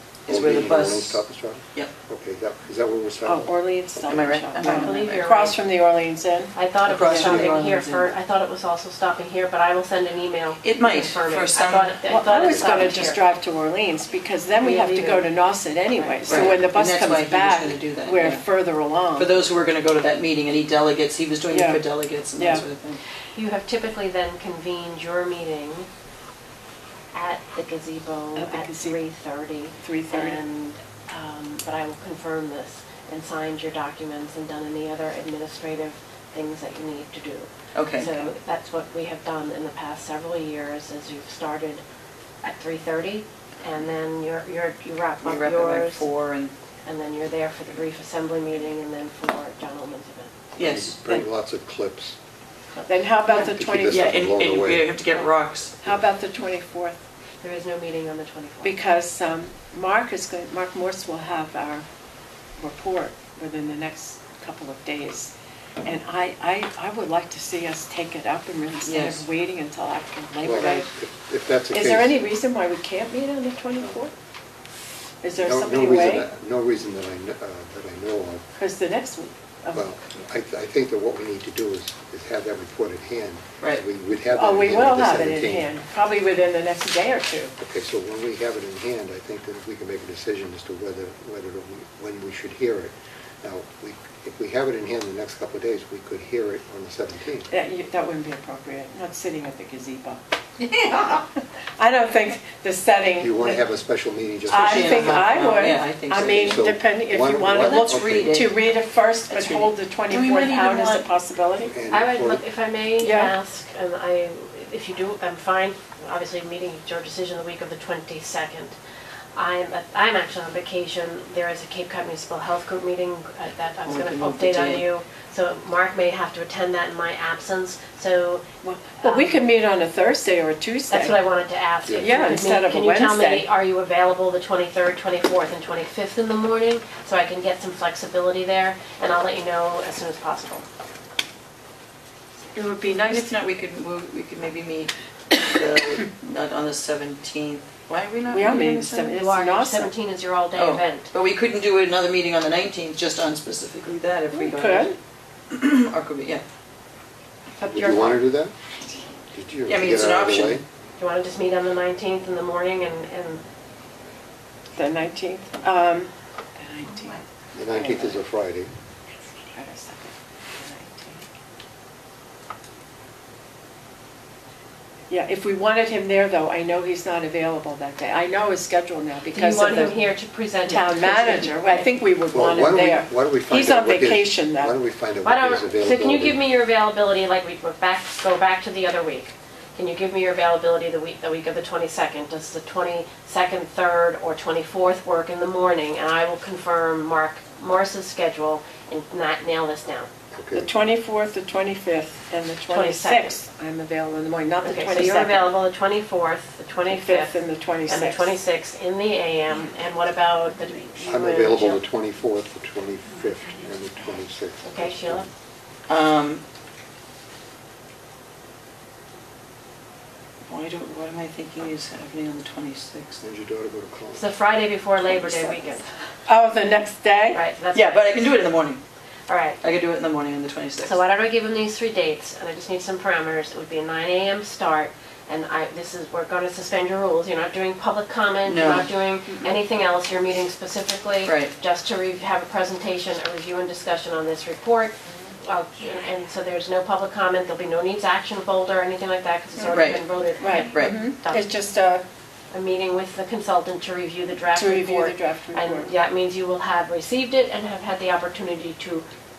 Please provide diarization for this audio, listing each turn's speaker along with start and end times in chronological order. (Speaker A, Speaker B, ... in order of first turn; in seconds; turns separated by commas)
Speaker A: 0.2-1.9, Speaker B: 0.3-4.4, Speaker C: 3.2-8.1, Speaker A: 4.1-5.3, Speaker D: 4.6-5.6, Speaker D: 6.5-13.2, Speaker A: 6.9-7.6, Speaker A: 10.6-12.0, Speaker C: 12.1-19.3, Speaker D: 14.6-15.3, Speaker D: 15.9-16.5, Speaker A: 16.3-18.4, Speaker A: 19.1-23.0, Speaker C: 21.5-21.8, Speaker C: 22.4-22.6, Speaker D: 23.3-25.9, Speaker D: 27.1-41.8, Speaker C: 28.3-29.0, Speaker C: 29.8-30.4, Speaker A: 37.7-38.3, Speaker D: 42.4-46.1, Speaker A: 45.2-46.5, Speaker D: 46.8-50.6, Speaker A: 50.6-51.0, Speaker B: 50.6-52.2, Speaker D: 52.7-53.4, Speaker C: 52.9-54.2, Speaker B: 53.5-54.9, Speaker A: 53.9-55.7, Speaker C: 55.8-57.0, Speaker D: 57.4-58.8, Speaker C: 58.6-61.9, Speaker C: 62.6-65.3, Speaker C: 65.8-70.9, Speaker A: 68.8-69.2, Speaker B: 70.4-72.2, Speaker C: 71.7-74.1, Speaker C: 75.2-76.3, Speaker B: 75.3-78.4, Speaker C: 78.6-79.9, Speaker B: 79.7-85.7, Speaker C: 84.3-87.5, Speaker B: 87.6-97.5, Speaker C: 97.5-103.6, Speaker B: 103.2-105.3, Speaker C: 104.5-111.7, Speaker A: 104.5-106.6, Speaker B: 106.2-108.3, Speaker A: 107.5-108.6, Speaker A: 109.3-111.1, Speaker B: 111.6-112.4, Speaker D: 111.9-118.8, Speaker C: 113.0-113.3, Speaker D: 119.3-128.5, Speaker A: 123.8-124.9, Speaker C: 128.6-131.2, Speaker D: 129.0-129.4, Speaker D: 130.9-140.7, Speaker C: 131.9-133.5, Speaker C: 142.5-143.3, Speaker A: 142.9-149.1, Speaker C: 148.3-149.9, Speaker D: 149.1-151.1, Speaker A: 150.5-154.9, Speaker C: 154.3-154.9, Speaker A: 155.5-156.4, Speaker D: 157.6-158.2, Speaker B: 157.6-158.5, Speaker B: 159.3-160.6, Speaker A: 159.7-160.6, Speaker D: 161.0-163.4, Speaker C: 164.7-168.2, Speaker B: 167.5-168.7, Speaker C: 169.5-171.3, Speaker C: 175.1-180.1, Speaker D: 179.3-182.0, Speaker C: 180.7-184.7, Speaker B: 182.3-186.4, Speaker D: 185.2-200.1, Speaker B: 200.3-200.7, Speaker C: 200.5-205.5, Speaker D: 202.7-203.4, Speaker D: 204.6-211.8, Speaker C: 206.8-208.4, Speaker B: 211.1-215.3, Speaker D: 214.6-215.3, Speaker A: 215.9-216.4, Speaker A: 220.5-223.2, Speaker B: 223.2-224.3, Speaker D: 224.1-225.8, Speaker C: 226.3-227.4, Speaker D: 227.3-228.2, Speaker A: 227.7-228.8, Speaker D: 229.3-229.6, Speaker A: 229.6-231.0, Speaker D: 230.8-251.5, Speaker A: 238.5-238.9, Speaker A: 241.2-241.5, Speaker A: 249.6-250.0, Speaker C: 250.4-252.0, Speaker A: 250.6-251.1, Speaker D: 252.5-259.1, Speaker C: 254.5-255.9